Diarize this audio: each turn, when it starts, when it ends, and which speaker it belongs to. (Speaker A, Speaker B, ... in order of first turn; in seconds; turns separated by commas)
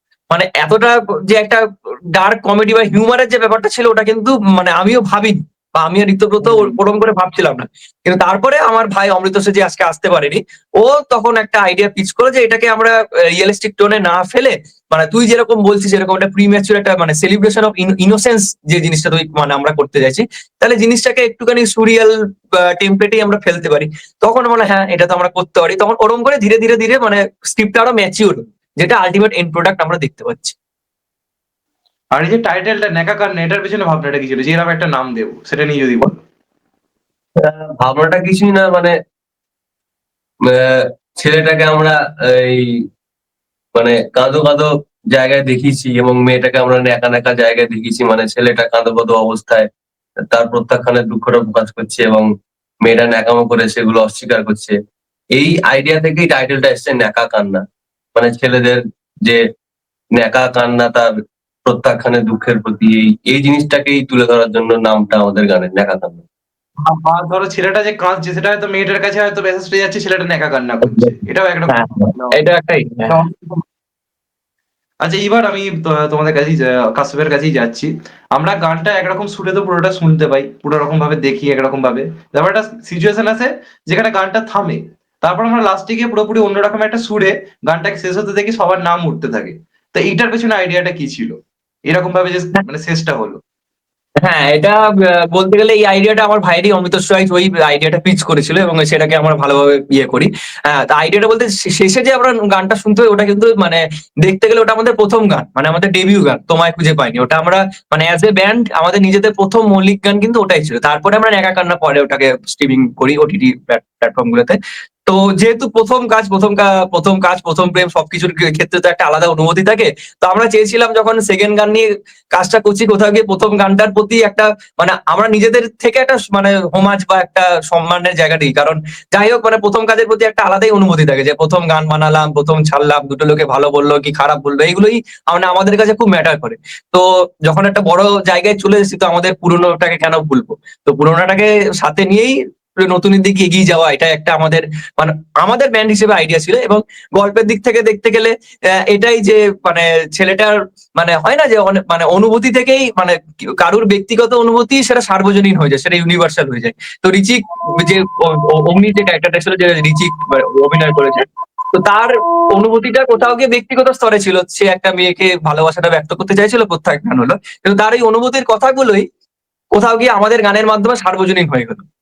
Speaker A: 0.3-30.6, Speaker B: 32.1-36.2, Speaker C: 37.4-39.0, Speaker C: 40.4-42.9, Speaker C: 43.8-49.7, Speaker C: 50.3-54.8, Speaker C: 55.4-57.6, Speaker C: 58.1-59.4, Speaker C: 60.2-61.1, Speaker C: 61.6-66.2, Speaker B: 66.8-72.4, Speaker A: 70.9-71.2, Speaker A: 71.7-73.2, Speaker B: 73.1-73.6, Speaker B: 75.0-93.4, Speaker A: 94.2-169.1, Speaker A: 169.7-171.8